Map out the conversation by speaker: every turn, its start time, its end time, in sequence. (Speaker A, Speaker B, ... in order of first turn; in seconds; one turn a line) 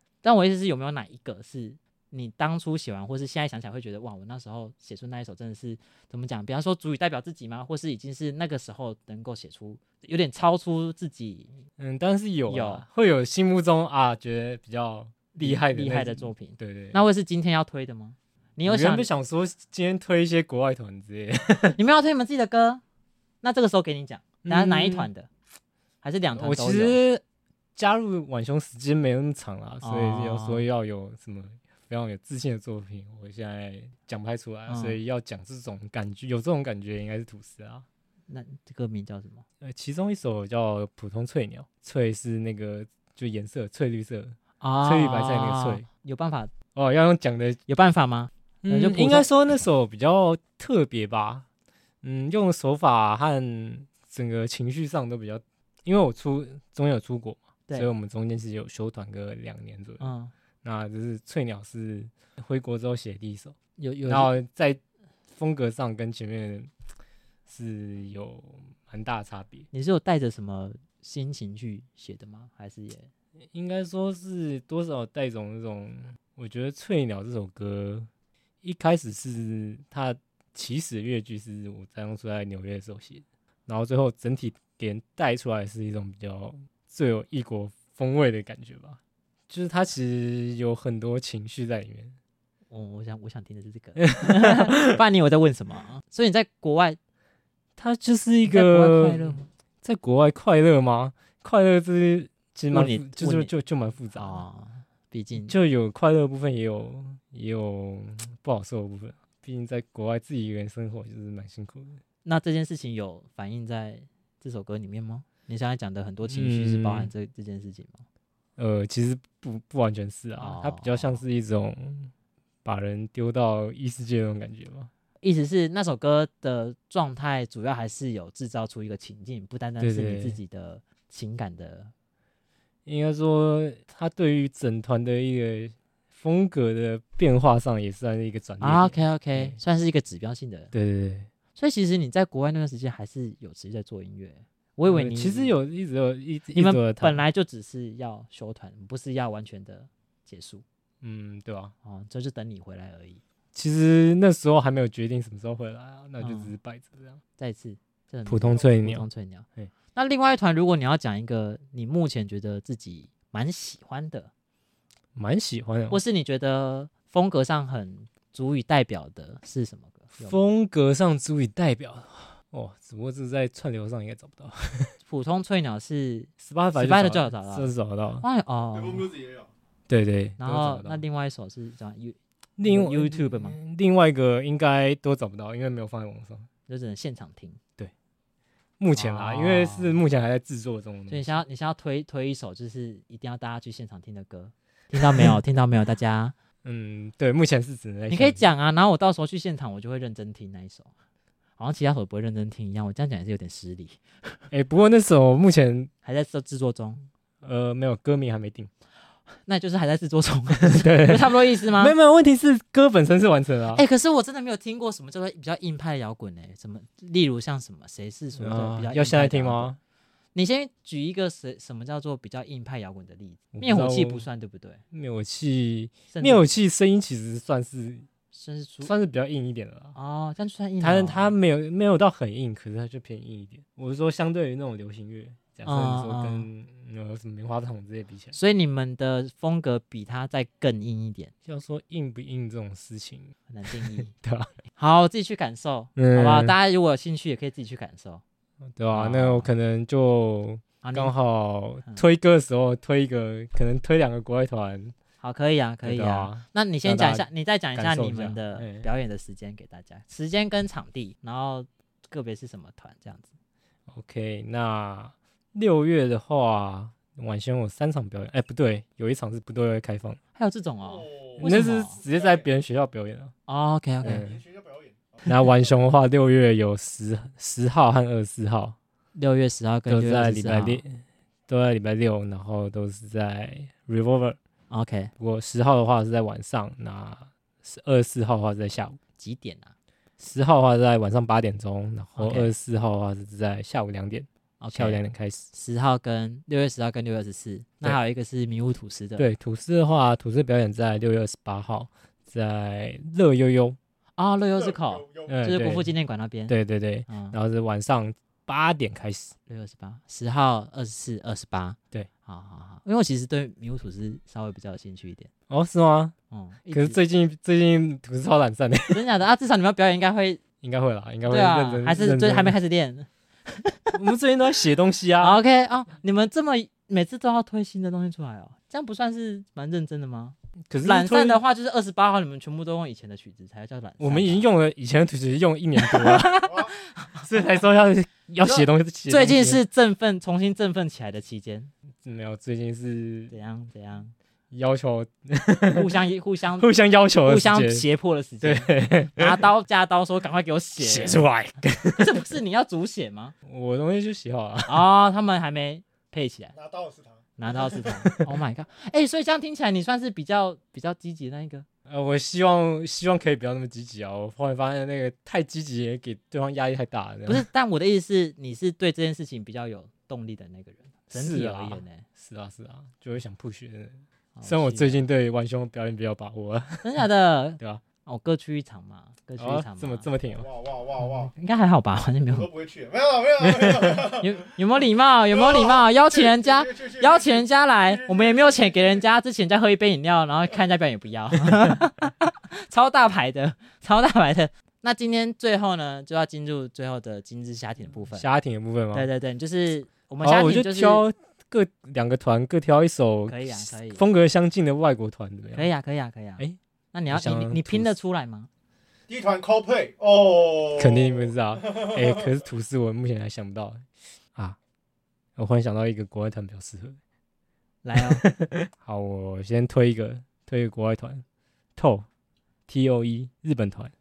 Speaker A: 0.2-11.6
Speaker B: 11.8-17.0
Speaker A: 12.5-12.8
Speaker A: 15.3-19.1
Speaker B: 18.6-21.8
Speaker A: 21.8-22.8
Speaker A: 23.4-25.3
Speaker B: 24.4-25.1
Speaker A: 26.0-27.0
Speaker B: 26.4-27.2
Speaker B: 27.8-37.8
Speaker A: 29.8-30.7
Speaker A: 34.7-35.0
Speaker A: 38.3-39.4
Speaker B: 39.6-45.9
Speaker A: 44.6-46.5
Speaker B: 46.7-47.6
Speaker A: 47.7-49.3
Speaker B: 48.6-51.4
Speaker B: 52.0-60.1
Speaker A: 60.0-60.3
Speaker B: 60.6-64.8
Speaker A: 63.8-64.3
Speaker B: 65.3-66.7
Speaker B: 67.5-69.7
Speaker A: 69.7-73.1
Speaker B: 73.5-78.1
Speaker B: 78.6-92.2
Speaker A: 92.7-97.0
Speaker B: 94.1-95.0
Speaker B: 97.8-104.4
Speaker A: 98.5-99.5
Speaker A: 102.7-103.5
Speaker A: 104.1-105.5
Speaker B: 105.4-112.0
Speaker A: 112.2-118.0
Speaker B: 116.2-117.1
Speaker B: 118.6-122.1
Speaker A: 120.4-121.2
Speaker B: 122.6-124.9
Speaker A: 125.2-131.9
Speaker B: 129.8-130.4
Speaker B: 132.8-139.6
Speaker A: 138.6-140.7
Speaker B: 140.7-141.3
Speaker A: 141.5-145.5
Speaker B: 144.8-147.2
Speaker A: 146.5-150.6
Speaker B: 151.0-151.7
Speaker A: 151.8-153.2
Speaker B: 153.5-157.2
Speaker A: 156.2-156.5
Speaker A: 157.4-164.3
Speaker B: 158.3-159.1
Speaker B: 165.1-166.0
Speaker A: 165.9-170.4
Speaker B: 170.2-174.9
Speaker A: 175.0-179.1
Speaker B: 176.4-178.2
Speaker C: 178.7-179.5
Speaker B: 179.9-181.0
Speaker A: 180.4-183.6
Speaker B: 182.6-186.5
Speaker A: 186.7-187.6
Speaker B: 188.8-191.4
Speaker A: 188.9-190.0
Speaker A: 191.1-196.3
Speaker B: 196.6-198.4
Speaker A: 198.1-200.9
Speaker A: 201.6-204.4
Speaker B: 204.5-205.9
Speaker A: 206.0-207.1
Speaker B: 207.4-208.7
Speaker A: 209.4-211.9
Speaker B: 210.7-213.8
Speaker A: 213.7-219.7
Speaker B: 218.4-219.8
Speaker A: 220.3-224.8
Speaker B: 223.5-224.2
Speaker B: 224.9-228.1
Speaker A: 226.1-226.4
Speaker A: 228.3-228.9
Speaker B: 228.8-229.9
Speaker A: 229.9-231.3
Speaker B: 230.8-238.3
Speaker A: 235.6-236.5
Speaker A: 238.3-241.3
Speaker B: 241.4-244.5
Speaker A: 243.5-244.1
Speaker A: 244.8-248.2
Speaker B: 246.0-246.5
Speaker B: 248.7-254.9
Speaker A: 248.9-249.5
Speaker A: 250.8-251.1
Speaker A: 255.2-263.3
Speaker B: 255.8-258.9
Speaker B: 263.9-270.2
Speaker A: 270.4-272.0
Speaker C: 270.8-272.5
Speaker B: 271.4-273.3
Speaker A: 273.5-274.2
Speaker C: 274.0-275.3
Speaker B: 274.0-274.4
Speaker B: 275.2-278.8
Speaker A: 279.1-280.8
Speaker B: 279.9-284.4
Speaker A: 284.7-285.1
Speaker B: 285.2-289.0
Speaker A: 289.2-289.7
Speaker B: 290.2-295.5
Speaker A: 292.1-292.5
Speaker A: 294.6-295.0
Speaker A: 295.5-299.2
Speaker B: 299.2-303.8
Speaker A: 304.2-306.5
Speaker C: 304.6-305.4
Speaker B: 305.3-305.9
Speaker B: 306.5-309.3
Speaker A: 307.1-307.4
Speaker A: 309.5-315.3
Speaker B: 315.5-316.1
Speaker A: 316.3-317.0
Speaker B: 316.7-319.0
Speaker A: 318.9-320.4
Speaker B: 320.6-322.5
Speaker A: 321.3-324.0
Speaker B: 323.9-325.4
Speaker A: 325.2-334.4
Speaker B: 330.7-331.4
Speaker B: 334.0-336.4
Speaker A: 335.8-337.5
Speaker C: 336.4-336.8
Speaker B: 337.2-339.6
Speaker A: 338.4-341.7
Speaker B: 342.0-343.3
Speaker A: 343.3-344.1
Speaker B: 344.5-345.9
Speaker A: 345.7-346.7
Speaker B: 346.6-347.8
Speaker A: 347.2-351.2
Speaker B: 348.4-349.4
Speaker B: 350.8-352.2
Speaker A: 351.9-353.3
Speaker B: 353.4-354.8
Speaker A: 354.7-356.5
Speaker C: 356.5-358.0
Speaker A: 357.4-361.6
Speaker B: 361.9-367.4
Speaker A: 367.3-372.0
Speaker B: 371.1-377.0
Speaker A: 374.4-375.1
Speaker A: 376.8-380.1
Speaker B: 379.4-380.4
Speaker C: 380.3-381.3
Speaker A: 381.0-382.5
Speaker C: 382.3-384.5
Speaker B: 383.4-384.0
Speaker A: 384.2-398.3
Speaker C: 385.3-389.0
Speaker B: 398.1-399.1
Speaker A: 398.9-401.0
Speaker B: 400.2-405.7
Speaker A: 403.3-404.0
Speaker A: 405.5-408.5
Speaker B: 407.1-407.9
Speaker C: 409.1-412.3
Speaker B: 410.8-414.6
Speaker B: 415.4-417.0
Speaker A: 417.8-418.2
Speaker B: 417.9-421.2
Speaker B: 421.8-422.1
Speaker B: 422.7-423.9